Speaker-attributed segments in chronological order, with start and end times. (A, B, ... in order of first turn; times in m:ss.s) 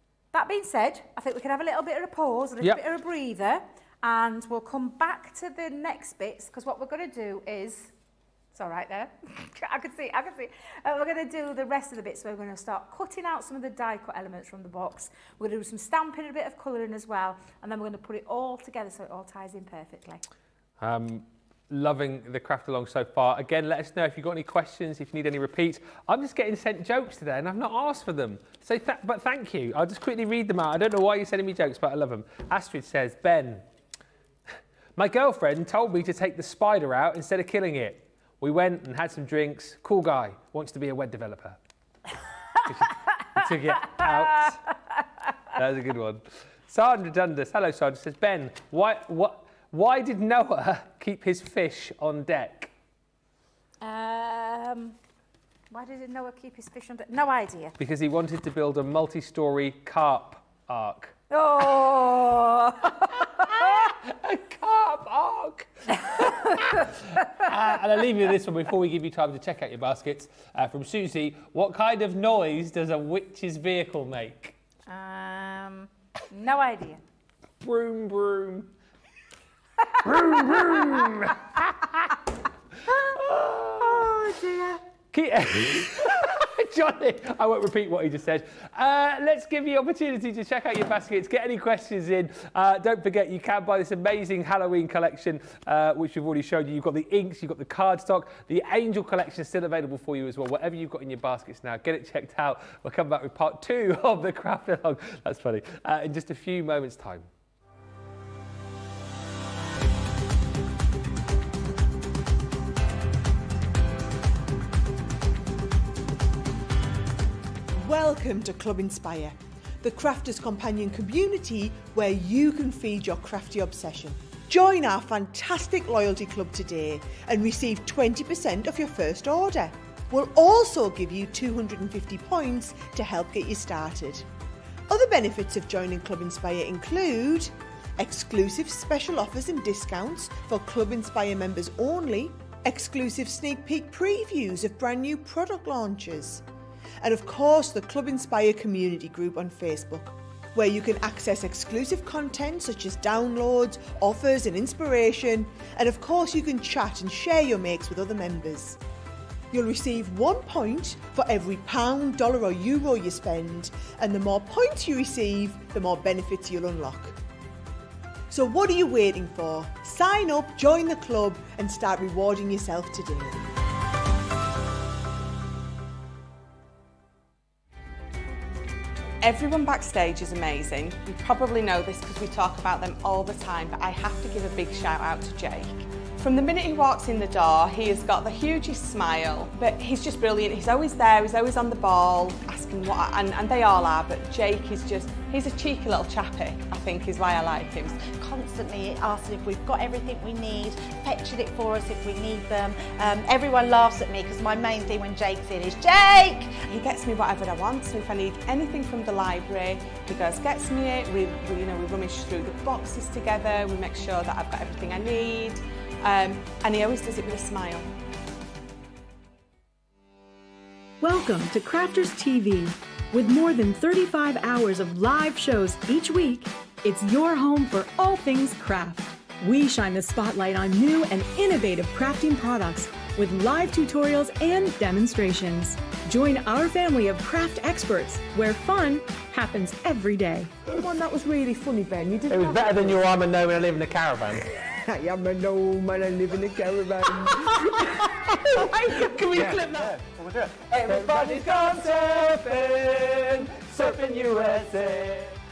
0:00.3-0:07.9 A
0:08.5-0:20.2 A
0:20.8-0:33.7 B
0:35.0-0:41.6 B
0:42.6-0:44.6 B
0:45.5-0:52.7 B
0:53.8-0:55.0 A
0:55.7-0:57.8 A
0:57.8-1:01.2 B
1:01.3-1:03.9 A
1:03.1-1:14.6 B
1:06.1-1:06.8 A
1:14.9-1:17.0 A
1:17.6-1:18.7 B
1:19.9-1:21.2 A
1:20.0-1:22.2 B
1:22.9-1:24.8 A
1:23.1-1:24.2 B
1:25.1-1:47.3 B
1:57.8-2:14.3 C
2:14.9-2:26.4 C
2:27.0-2:38.8 C
2:39.5-2:47.2 C
2:48.3-2:53.5 C
2:59.2-3:18.1 D
3:18.1-3:26.7 E
3:26.6-3:37.9 D
3:41.0-4:00.5 F
4:00.7-4:03.0 C
4:02.3-4:04.5 B
4:04.9-4:10.0 C
4:09.2-4:15.4 B
4:10.8-4:11.4 C